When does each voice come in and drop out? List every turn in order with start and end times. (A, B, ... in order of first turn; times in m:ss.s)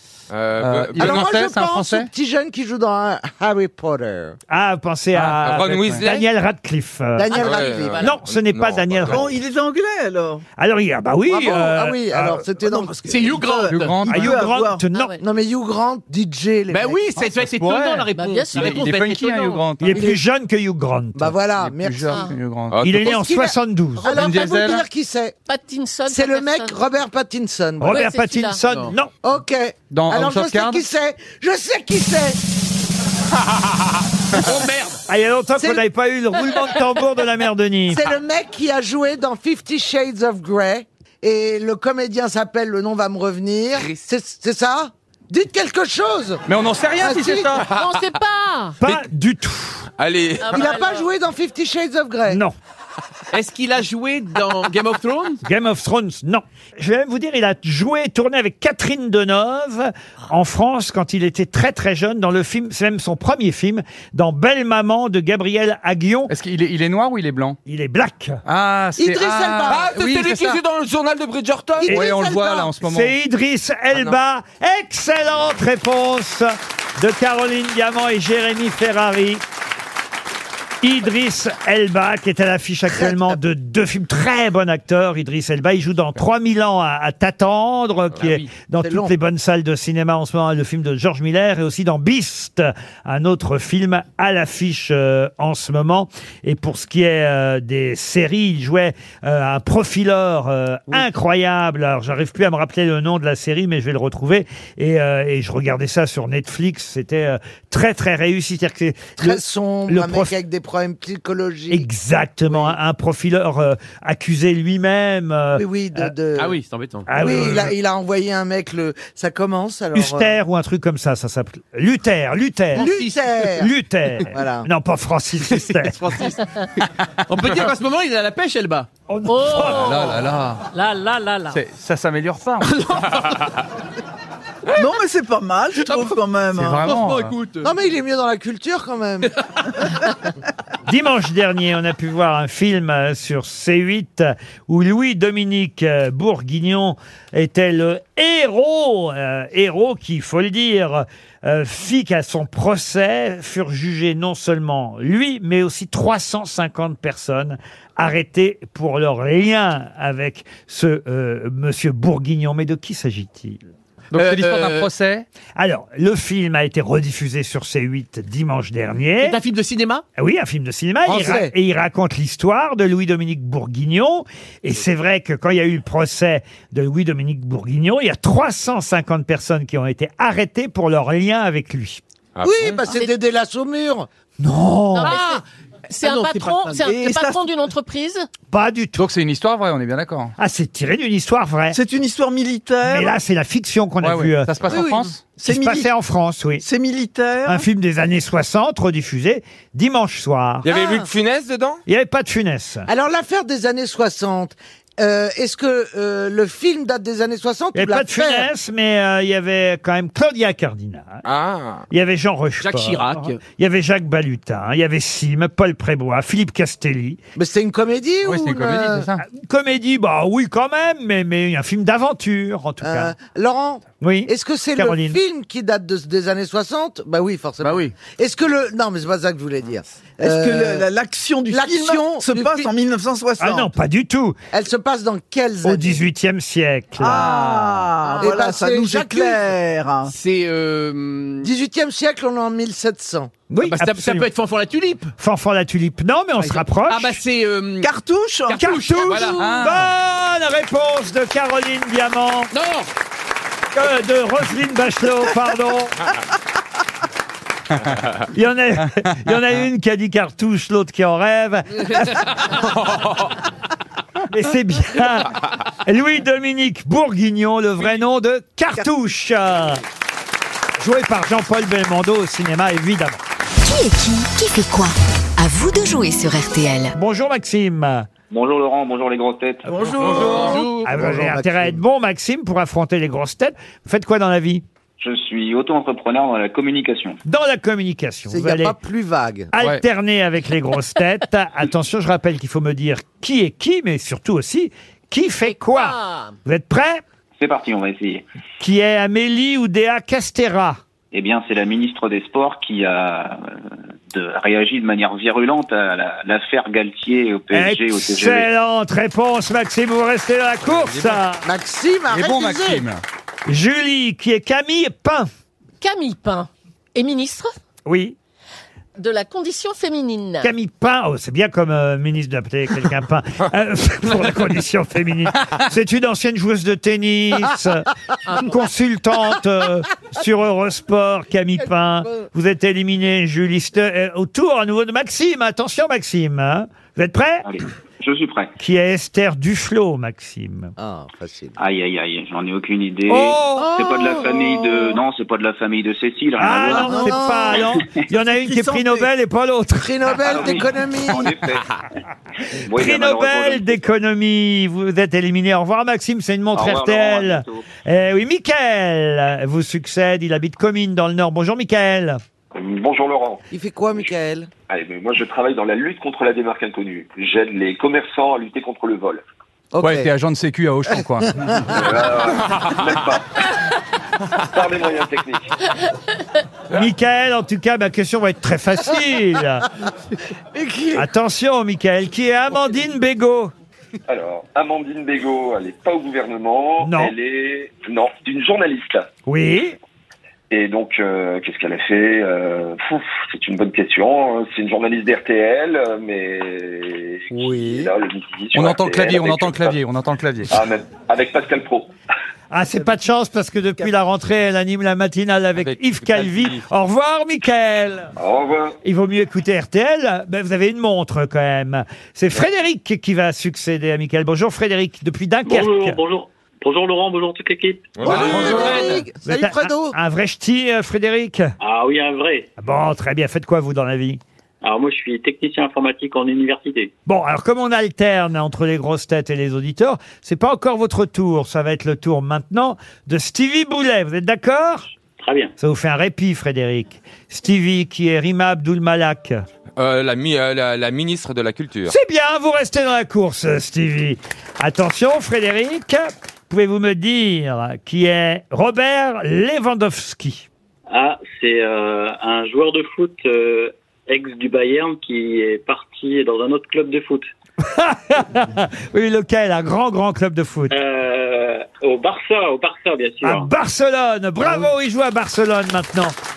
0:00.3-0:01.4 A
0:00.6-0:02.1 B
0:01.0-0:04.4 C
0:04.5-0:09.4 D
0:05.1-0:06.0 B
0:05.4-0:06.2 A
0:07.2-0:08.1 C
0:07.3-0:09.3 A
0:09.0-0:10.4 E
0:10.6-0:12.4 D
0:11.3-0:13.4 C
0:12.6-0:14.8 E
0:13.0-0:14.0 F
0:13.7-0:14.4 B
0:14.1-0:15.2 D
0:14.9-0:15.2 G
0:15.2-0:17.0 C
0:16.7-0:19.6 F
0:17.5-0:20.0 B
0:18.1-0:18.8 G
0:19.8-0:21.4 D
0:19.9-0:20.2 C
0:21.1-0:22.2 C
0:21.6-0:22.8 B
0:22.1-0:22.4 G
0:22.7-0:23.2 A
0:22.8-0:24.1 D
0:23.0-0:25.4 C
0:24.0-0:24.4 G
0:24.1-0:24.8 B
0:25.5-0:26.8 G
0:26.0-0:28.0 C
0:27.8-0:29.1 D
0:27.8-0:28.6 G
0:28.6-0:28.9 F
0:29.2-0:32.4 C
0:29.9-0:30.8 B
0:34.5-0:35.0 F
0:35.1-0:38.0 D
0:35.6-0:35.8 C
0:37.9-0:46.4 C
0:46.5-0:47.7 B
0:47.0-0:47.6 C
0:47.7-0:48.8 G
0:48.8-0:49.8 D
0:50.0-0:50.7 A
0:50.4-0:51.1 G
0:50.5-0:52.4 C
0:52.3-0:52.6 D
0:53.3-0:55.4 F
0:55.4-1:06.3 D
1:06.3-1:07.6 B
1:07.6-1:08.4 D
1:08.4-1:10.2 B
1:09.0-1:10.6 C
1:09.7-1:11.9 A
1:11.8-1:12.7 C
1:11.9-1:12.1 D
1:11.9-1:13.1 B
1:12.8-1:19.4 D
1:20.8-1:50.3 D
1:22.9-1:23.4 C
1:28.2-1:28.5 F
1:28.8-1:29.1 C
1:49.2-1:51.8 C
1:51.7-1:56.1 D
1:52.5-1:52.8 C
1:55.5-1:56.6 C
1:56.4-1:57.1 F
1:57.1-1:57.7 D
1:57.2-2:00.4 C
1:59.9-2:03.0 D
2:02.7-2:03.7 C
2:02.8-2:03.5 F
2:03.6-2:06.0 D
2:04.2-2:04.7 C
2:05.8-2:06.4 F
2:07.3-2:08.9 F
2:09.1-2:10.0 D
2:09.2-2:11.6 G
2:09.5-2:10.7 B
2:11.5-2:13.1 B
2:12.6-2:13.3 F
2:14.8-2:16.9 E
2:15.8-2:16.2 F
2:16.5-2:17.4 B
2:16.8-2:17.7 F
2:17.6-2:19.3 C
2:20.8-2:43.6 D
2:44.1-2:45.2 B
2:44.1-2:44.9 F
2:45.6-2:49.4 D
2:49.2-2:50.0 F
2:50.2-3:02.0 D
2:51.0-2:51.5 C
3:02.4-3:02.8 A
3:02.4-3:04.1 C
3:04.4-3:05.2 D
3:04.9-3:05.4 G
3:05.1-3:06.8 F
3:06.0-3:08.3 G
3:06.8-3:07.5 E
3:08.5-3:09.0 D
3:09.0-3:10.3 B
3:10.4-3:11.8 D
3:11.7-3:13.2 E
3:12.8-3:14.5 D
3:14.0-3:15.2 B
3:14.7-3:15.0 C
3:15.3-3:15.9 E
3:15.4-3:16.6 D
3:16.6-3:17.6 E
3:17.4-3:20.7 D
3:20.6-3:21.8 A
3:20.7-3:21.1 C
3:21.9-3:22.9 D
3:22.9-3:28.5 C
3:27.7-3:31.2 D
3:31.2-3:31.8 A
3:31.9-3:37.2 D
3:32.6-3:33.4 F
3:37.4-3:39.1 C
3:38.2-3:39.2 B
3:39.2-3:43.1 D
3:42.8-3:50.9 C
3:44.0-3:45.2 D
3:47.6-3:47.9 F
3:50.2-3:53.7 E
3:51.5-3:52.7 C
3:53.4-3:54.4 D
3:54.5-3:56.0 C
3:55.6-3:57.3 D
3:57.0-4:00.1 E
3:57.1-3:57.9 B
3:58.0-3:58.5 G
3:58.2-3:59.5 C
4:00.0-4:01.5 F
4:01.4-4:03.3 C
4:03.5-4:04.3 D
4:03.6-4:05.1 F
4:05.2-4:07.2 D
4:06.4-4:07.9 F
4:07.8-4:08.7 E
4:08.5-4:09.6 F
4:08.6-4:12.5 D
4:09.4-4:09.9 B
4:12.5-4:12.9 F
4:13.7-4:16.0 D
4:18.3-4:22.3 D
4:24.3-4:29.8 D
4:30.8-4:33.2 D
4:33.6-4:36.9 H
4:36.9-4:38.1 D
4:38.3-4:39.8 I
4:39.6-4:40.7 E
4:39.8-4:41.1 F
4:40.8-4:44.6 D
4:45.0-4:47.2 I
4:47.2-4:48.7 D
4:48.3-4:49.5 C
4:49.5-4:57.0 D
4:55.4-4:56.4 G
4:57.4-4:58.2 I
4:58.6-5:00.8 D
5:01.1-5:03.6 I
5:04.1-5:08.5 I
5:07.5-5:11.4 D
5:10.7-5:11.2 B
5:11.4-5:12.8 C
5:12.1-5:13.0 B
5:13.5-5:15.3 D
5:15.8-5:17.5 G
5:17.8-5:18.2 D
5:19.0-5:20.5 G
5:20.4-5:37.6 D
5:28.3-5:28.6 G
5:37.4-5:38.5 I
5:38.6-5:40.7 D
5:40.8-5:41.6 C
5:41.6-5:47.0 I
5:43.1-5:43.8 D
5:43.6-5:45.0 C
5:46.4-5:50.1 D
5:46.6-5:47.7 C
5:46.7-5:47.2 E
5:48.1-5:49.1 E
5:49.8-5:51.3 C
5:50.2-5:51.6 J
5:52.6-5:53.9 J
5:52.7-6:02.2 D
5:56.5-5:57.6 J
6:02.5-6:03.4 J
6:03.5-6:04.5 C
6:04.7-6:09.2 J
6:09.7-6:10.1 C
6:09.8-6:11.7 B
6:11.7-6:13.3 J
6:14.5-6:15.5 J
6:16.7-6:19.6 D
6:20.5-6:21.1 C
6:20.9-6:23.5 D
6:24.1-6:29.1 J
6:26.8-6:27.1 D
6:29.3-6:29.8 D
6:30.5-6:39.8 J
6:37.3-6:37.9 C
6:38.5-6:40.6 B
6:40.5-6:41.9 J
6:42.5-6:48.1 D
6:45.6-6:46.6 A
6:48.2-6:48.8 J
6:48.8-6:56.0 D
6:55.4-6:58.9 K
6:57.9-6:58.7 A
6:58.0-7:00.0 C
6:58.1-7:01.5 D
7:01.6-7:02.5 K
7:02.6-7:04.2 D
7:04.6-7:06.9 K
7:07.0-7:14.9 D
7:15.2-7:15.5 K
7:15.6-7:19.4 D
7:19.8-7:21.9 A
7:21.9-7:30.5 D
7:30.9-7:37.3 K
7:37.6-7:40.7 D
7:40.7-7:43.5 K
7:43.2-7:46.1 D